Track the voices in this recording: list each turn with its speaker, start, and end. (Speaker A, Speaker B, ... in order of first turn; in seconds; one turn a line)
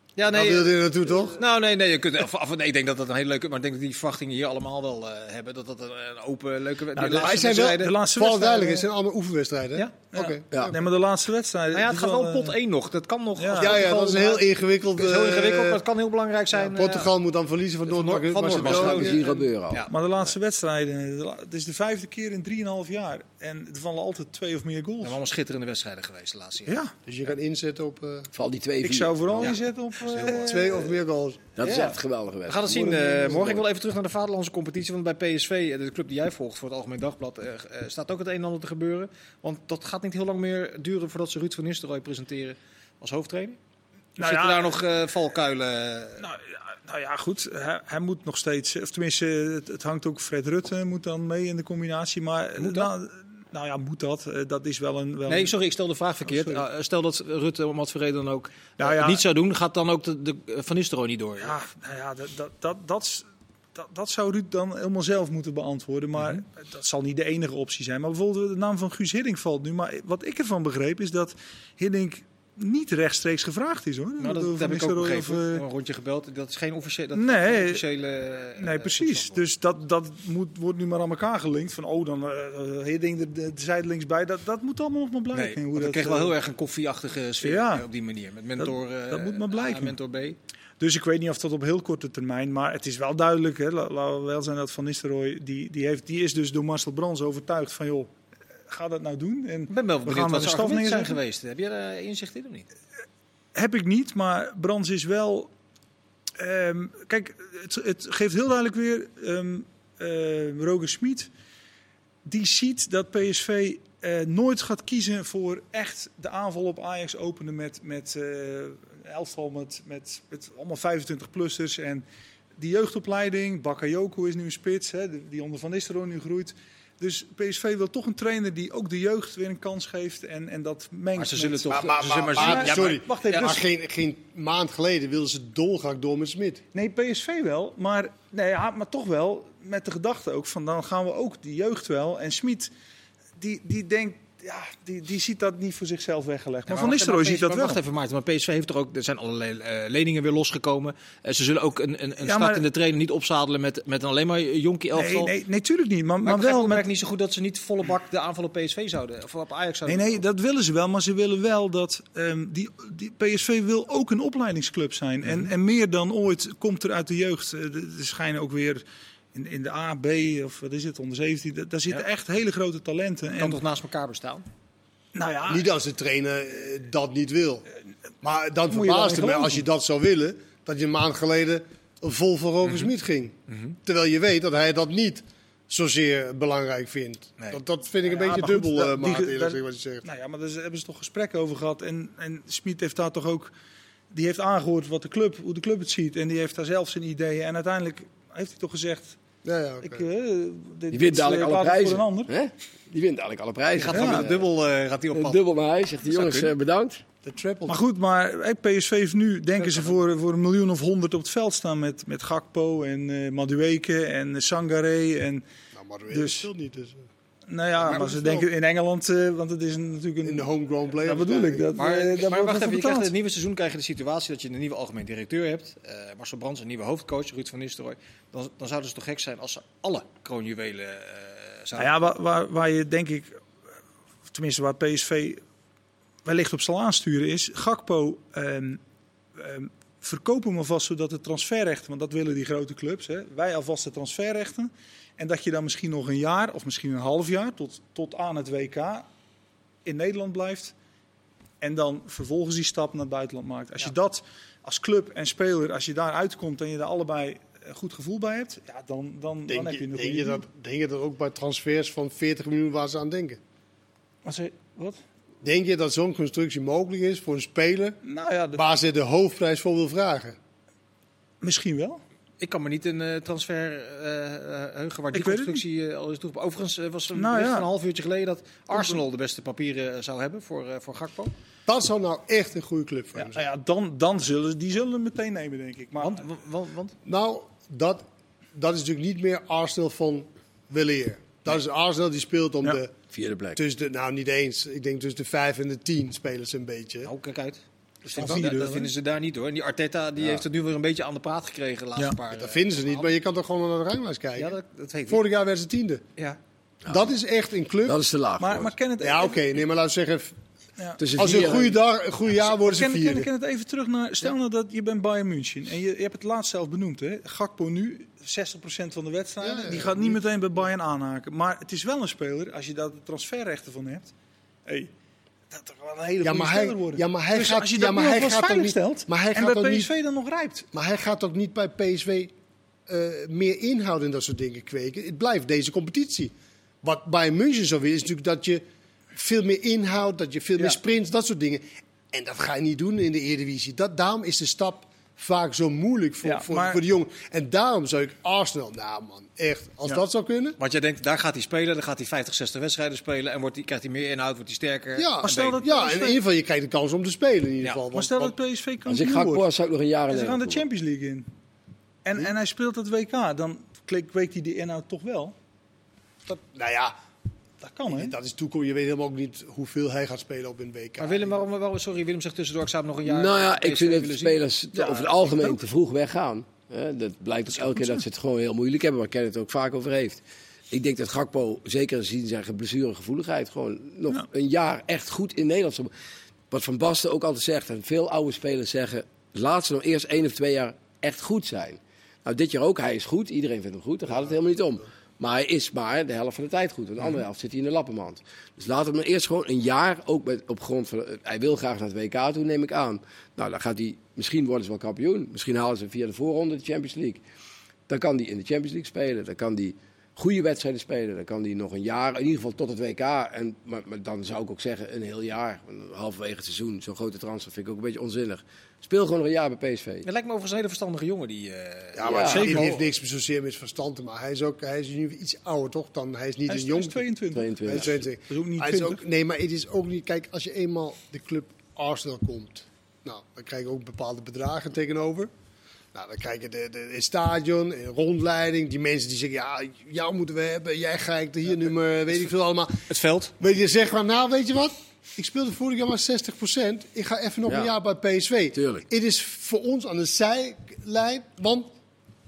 Speaker A: 0.2-7.9
Speaker B: 0.3-1.4
Speaker C: 6.9-8.9
Speaker B: 7.1-10.7
Speaker C: 10.1-12.6
Speaker A: 11.7-17.1
Speaker C: 13.4-14.2
Speaker B: 13.6-15.8
Speaker B: 16.5-19.2
Speaker A: 17.9-19.9
Speaker D: 18.5-19.9
Speaker C: 19.9-25.2
Speaker A: 25.0-26.7
Speaker C: 26.7-26.9
Speaker B: 27.1-28.3
Speaker D: 28.3-29.5
Speaker C: 28.8-30.9
Speaker A: 30.1-30.5
Speaker B: 30.3-31.6
Speaker D: 31.6-33.6
Speaker A: 31.6-31.9
Speaker A: 32.5-43.6
Speaker B: 32.9-33.3
Speaker C: 44.2-44.7
Speaker A: 44.2-46.2
Speaker C: 46.2-55.5
Speaker A: 52.6-52.9
Speaker A: 55.3-61.5
Speaker C: 56.3-56.6
Speaker C: 58.8-59.2
Speaker C: 61.4-75.6
Speaker A: 74.2-79.4
Speaker C: 77.1-77.8
Speaker C: 78.6-86.3
Speaker A: 85.3-90.4
Speaker C: 87.4-87.8
Speaker C: 88.6-90.0
Speaker C: 90.8-98.1
Speaker C: 98.7-101.2
Speaker A: 99.7-102.7
Speaker C: 103.5-105.5
Speaker C: 106.4-111.3
Speaker C: 112.2-122.0
Speaker C: 122.6-131.8
Speaker A: 131.2-133.6
Speaker B: 131.7-136.6
Speaker C: 132.3-133.6
Speaker C: 136.7-142.7
Speaker C: 143.4-147.8
Speaker A: 146.7-155.3
Speaker C: 152.2-152.7
Speaker C: 154.9-156.8
Speaker A: 156.2-160.2
Speaker C: 159.9-168.8
Speaker A: 165.2-165.5
Speaker C: 169.3-173.6
Speaker A: 173.4-174.4
Speaker C: 175.1-175.7
Speaker B: 175.5-177.6
Speaker B: 178.2-190.0
Speaker C: 178.7-179.6
Speaker A: 182.6-182.9
Speaker A: 183.5-183.8
Speaker C: 188.0-193.5
Speaker C: 194.1-199.2
Speaker B: 199.4-200.1
Speaker C: 199.8-202.3
Speaker D: 200.9-204.4
Speaker A: 203.8-205.4
Speaker C: 203.9-204.2
Speaker D: 205.1-207.0
Speaker A: 206.1-206.5
Speaker B: 207.2-207.8
Speaker C: 207.7-215.4
Speaker B: 215.7-217.0
Speaker C: 216.1-216.5
Speaker C: 217.5-220.5
Speaker B: 217.8-218.4
Speaker B: 220.2-221.7
Speaker C: 221.0-223.1
Speaker A: 221.8-231.9
Speaker C: 231.8-233.4
Speaker C: 234.3-235.4
Speaker C: 236.2-238.8
Speaker C: 239.3-249.1
Speaker C: 249.8-250.7
Speaker C: 251.6-260.4
Speaker B: 259.5-263.4
Speaker C: 264.2-265.0
Speaker B: 265.4-268.0
Speaker C: 268.0-268.6
Speaker B: 268.5-270.4
Speaker C: 271.4-272.0
Speaker A: 272.4-281.3
Speaker C: 275.1-275.6
Speaker C: 277.1-277.7
Speaker C: 278.7-279.0
Speaker B: 281.7-283.4
Speaker C: 283.2-286.2
Speaker A: 286.0-286.9
Speaker B: 287.0-288.0
Speaker B: 288.5-292.9
Speaker D: 293.1-293.6
Speaker B: 293.6-297.1
Speaker A: 297.0-303.1
Speaker C: 298.1-298.9
Speaker D: 300.2-300.4
Speaker B: 302.3-304.5
Speaker A: 304.4-305.2
Speaker B: 305.1-306.0
Speaker B: 306.9-308.0
Speaker D: 307.9-308.7
Speaker C: 308.4-309.4
Speaker B: 309.0-310.3
Speaker D: 311.0-311.8
Speaker B: 311.1-313.3
Speaker C: 312.4-324.1
Speaker B: 319.4-320.2
Speaker C: 325.5-330.7
Speaker B: 326.2-329.9
Speaker B: 330.7-332.3
Speaker B: 332.9-336.3
Speaker B: 336.8-338.6
Speaker B: 339.1-350.6
Speaker C: 346.2-346.8
Speaker A: 350.6-355.6
Speaker B: 355.0-358.3
Speaker C: 355.2-356.2
Speaker C: 357.9-359.5
Speaker D: 358.9-360.6
Speaker C: 360.1-361.3
Speaker C: 362.0-365.4
Speaker B: 366.2-366.9
Speaker C: 367.6-368.1
Speaker B: 367.9-371.3
Speaker A: 371.0-374.4
Speaker D: 373.1-385.9
Speaker C: 374.7-375.6
Speaker C: 377.8-378.0
Speaker D: 386.5-407.2
Speaker D: 407.9-420.1
Speaker A: 420.0-422.9
Speaker B: 421.9-427.1
Speaker D: 422.0-422.6
Speaker C: 426.5-429.0
Speaker D: 427.3-428.0
Speaker B: 427.7-435.3
Speaker B: 435.9-442.8
Speaker A: 442.9-443.3
Speaker B: 443.4-451.7
Speaker D: 448.5-448.9